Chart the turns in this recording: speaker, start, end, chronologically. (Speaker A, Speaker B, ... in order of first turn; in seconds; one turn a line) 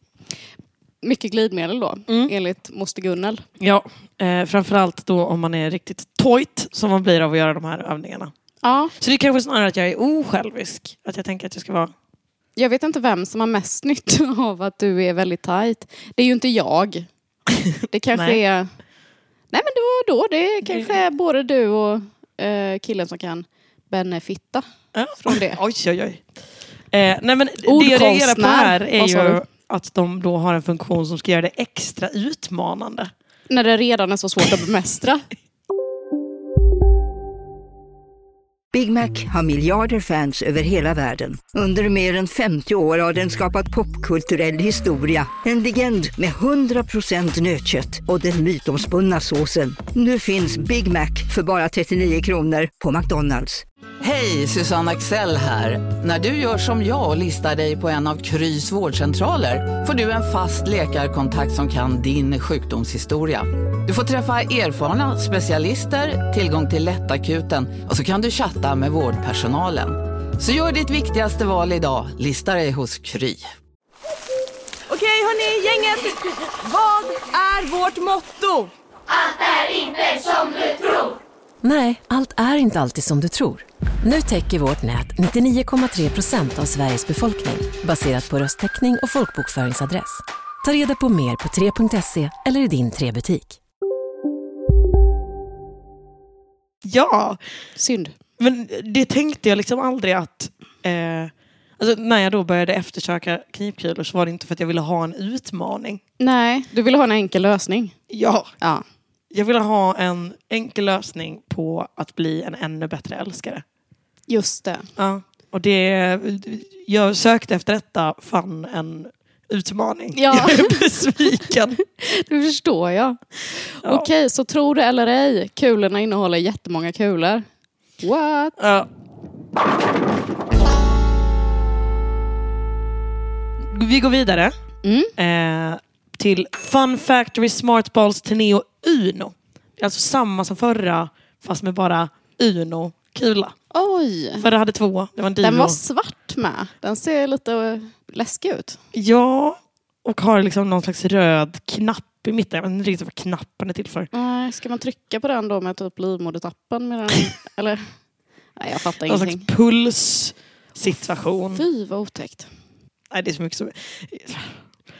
Speaker A: 1.0-3.4
Speaker B: 3.6-8.3
Speaker A: 8.6-8.9
Speaker B: 9.0-11.9
Speaker A: 12.6-17.1
Speaker A: 17.9-18.7
Speaker B: 18.1-18.4
Speaker A: 19.5-24.6
Speaker B: 20.6-20.9
Speaker B: 24.9-26.2
Speaker A: 25.2-25.6
Speaker B: 26.9-33.1
Speaker A: 27.6-29.4
Speaker A: 33.5-35.2
Speaker C: 38.7-53.6
Speaker D: 54.0-73.5
Speaker E: 74.9-78.7
Speaker F: 81.6-93.6
Speaker B: 96.8-97.4
Speaker A: 97.8-98.1
Speaker B: 98.4-106.0
Speaker A: 106.2-107.9
Speaker B: 108.1-108.5
Speaker B: 109.3-113.6
Speaker A: 114.3-114.9
Speaker B: 115.0-121.8
Speaker A: 120.1-120.8
Speaker A: 121.9-123.2
Speaker A: 123.8-127.5
Speaker B: 123.8-124.1
Speaker A: 128.0-128.6
Speaker B: 128.6-128.9
Speaker B: 133.7-134.5
Speaker A: 134.8-135.1
Speaker B: 135.2-143.5
Speaker A: 143.7-144.4
Speaker B: 144.4-145.8
Speaker A: 145.4-148.8
Speaker B: 148.9-154.1
Speaker A: 154.1-157.8
Speaker A: 158.6-159.4
Speaker B: 159.1-161.6
Speaker A: 161.5-162.5
Speaker B: 163.1-164.6